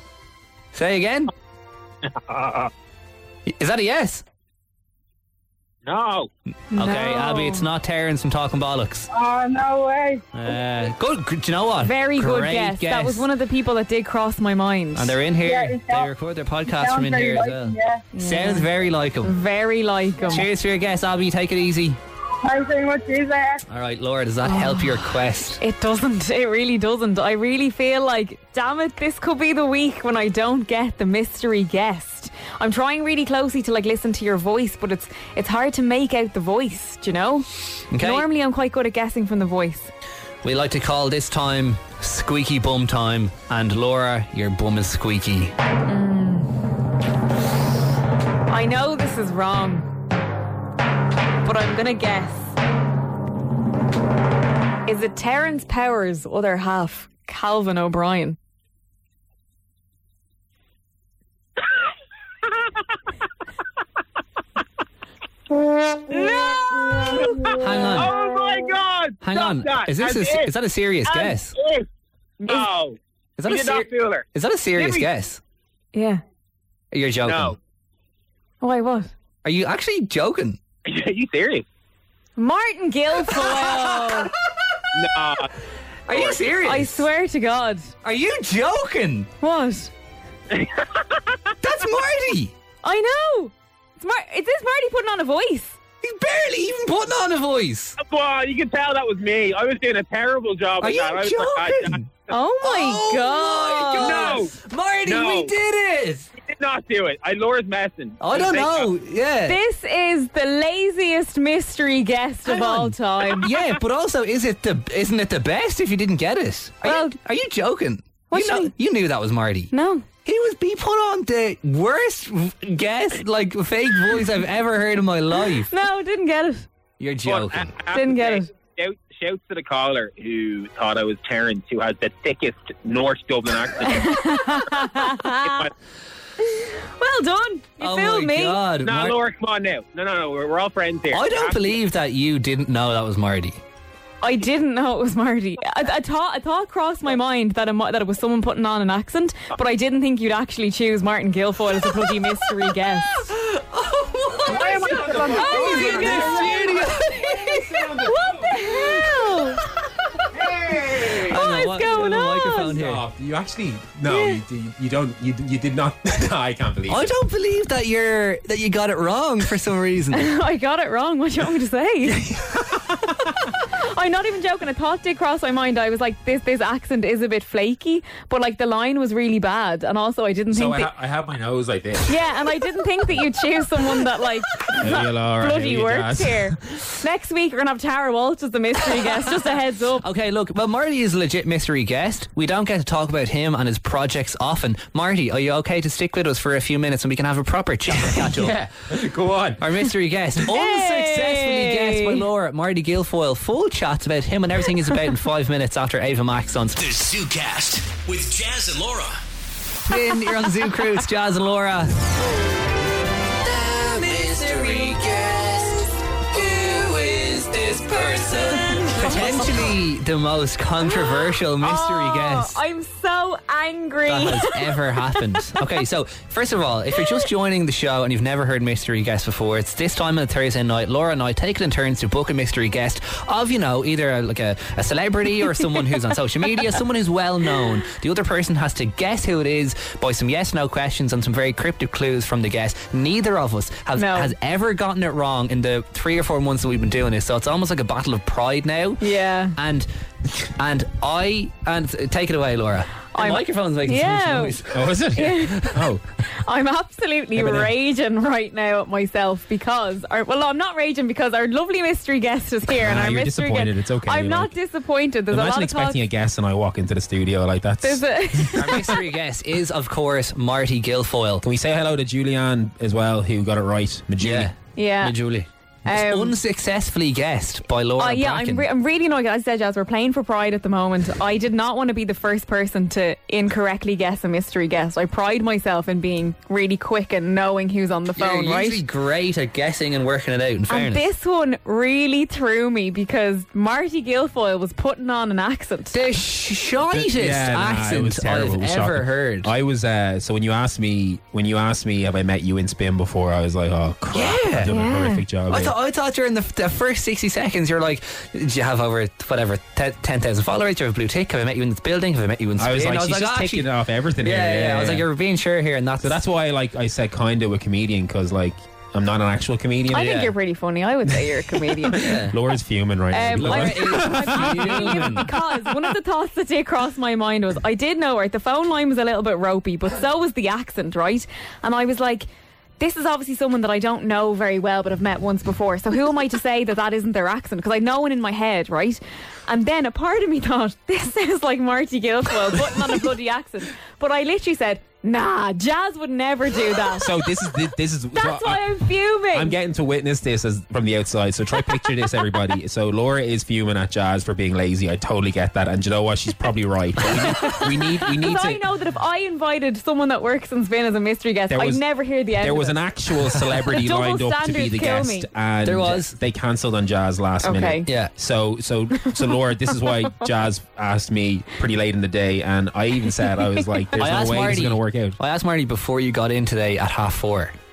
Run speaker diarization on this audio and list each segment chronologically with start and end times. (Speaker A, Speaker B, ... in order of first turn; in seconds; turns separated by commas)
Speaker A: 0.7-1.3, Speaker B: 2.2-2.7, Speaker A: 3.5-4.2, Speaker B: 5.8-6.3, Speaker C: 6.7-7.7, Speaker A: 6.7-9.1, Speaker D: 9.1-10.2, Speaker A: 10.3-13.3, Speaker C: 11.8-15.2, Speaker A: 14.9-19.4, Speaker D: 15.4-16.1, Speaker D: 16.7-18.1, Speaker C: 18.1-18.7, Speaker C: 19.2-20.5, Speaker A: 20.3-22.0, Speaker D: 22.4-23.6, Speaker A: 23.7-25.6, Speaker C: 24.4-39.9, Speaker A: 37.9-38.3, Speaker A: 40.4-45.5, Speaker C: 45.9-46.5, Speaker C: 48.5-49.9, Speaker C: 51.4-52.6, Speaker C: 54.9-58.4, Speaker A: 67.6-68.1, Speaker B: 68.0-70.5, Speaker A: 69.2-71.5, Speaker B: 71.6-71.8, Speaker C: 72.4-72.7, Speaker B: 72.5-73.0, Speaker A: 73.4-75.4, Speaker B: 73.5-74.2, Speaker C: 75.9-76.2, Speaker A: 76.9-77.6, Speaker C: 78.6-79.1, Speaker A: 79.4-80.6, Speaker B: 80.9-81.6, Speaker C: 82.4-84.3, Speaker A: 83.3-84.3, Speaker B: 85.0-85.3, Speaker A: 86.1-87.1, Speaker C: 86.6-87.9, Speaker A: 88.0-89.3, Speaker C: 89.4-89.9, Speaker A: 91.6-92.5, Speaker C: 92.8-95.8, Speaker A: 96.0-98.0, Speaker B: 98.0-101.9, Speaker A: 100.8-102.1, Speaker C: 102.3-104.4, Speaker A: 102.6-106.3, Speaker B: 104.2-104.5, Speaker B: 105.1-105.5, Speaker B: 106.5-108.8, Speaker A: 108.2-109.6, Speaker C: 109.5-113.5, Speaker A: 112.5-119.7, Speaker C: 116.8-117.2, Speaker C: 118.3-118.7, Speaker C: 119.7-120.0, Speaker A: 120.2-125.7, Speaker C: 125.7-126.7, Speaker A: 127.0-127.8, Speaker B: 127.3-134.1, Speaker C: 127.9-128.5, Speaker C: 133.9-135.7, Speaker C: 136.5-138.6, Speaker A: 137.8-139.2, Speaker B: 138.8-141.5, Speaker A: 141.1-143.6, Speaker C: 144.2-153.3, Speaker A: 153.2-157.7, Speaker C: 154.5-159.6, Speaker E: 154.6-156.9, Speaker E: 157.4-158.8, Speaker E: 160.3-161.4, Speaker C: 161.1-162.8, Speaker A: 161.2-163.0, Speaker E: 162.6-167.2, Speaker C: 164.1-164.4, Speaker A: 166.9-170.3, Speaker C: 170.1-172.2, Speaker E: 172.1-172.8, Speaker C: 173.9-180.9, Speaker E: 180.5-183.3, Speaker C: 182.1-190.0, Speaker E: 184.6-186.8, Speaker A: 190.0-198.7, Speaker E: 197.9-199.9, Speaker A: 199.6-206.8, Speaker C: 200.4-202.2, Speaker F: 206.8-209.2, Speaker A: 209.9-212.1, Speaker A: 213.4-222.6, Speaker C: 218.9-219.5, Speaker C: 220.8-225.6, Speaker A: 224.1-255.7, Speaker C: 243.9-244.3, Speaker C: 249.0-249.6, Speaker C: 253.1-254.6, Speaker E: 254.7-256.0, Speaker C: 255.1-255.8, Speaker C: 256.3-266.0, Speaker E: 257.4-257.7, Speaker E: 262.7-264.6, Speaker E: 265.3-268.9, Speaker C: 267.8-269.0, Speaker A: 268.5-271.4, Speaker E: 271.4-274.5, Speaker A: 274.2-278.7, Speaker C: 274.8-275.2, Speaker C: 275.9-276.4, Speaker C: 278.0-288.8, Speaker A: 288.1-291.1, Speaker C: 290.7-296.0, Speaker A: 295.9-299.5, Speaker E: 296.9-305.7, Speaker A: 304.1-304.7, Speaker C: 304.7-305.2, Speaker A: 305.5-313.7, Speaker E: 312.6-315.1, Speaker A: 314.2-316.2, Speaker E: 316.0-320.1, Speaker C: 319.9-322.2, Speaker A: 319.9-320.3, Speaker E: 321.1-325.2, Speaker A: 321.9-322.4, Speaker C: 323.1-332.3, Speaker A: 323.3-325.3, Speaker C: 332.8-347.2, Speaker E: 346.9-358.6, Speaker C: 348.1-349.6, Speaker C: 351.6-351.9, Speaker C: 357.3-362.8, Speaker E: 361.5-375.2, Speaker C: 363.7-365.3, Speaker A: 365.6-366.1, Speaker C: 367.4-367.9, Speaker A: 367.9-368.1, Speaker A: 374.0-377.6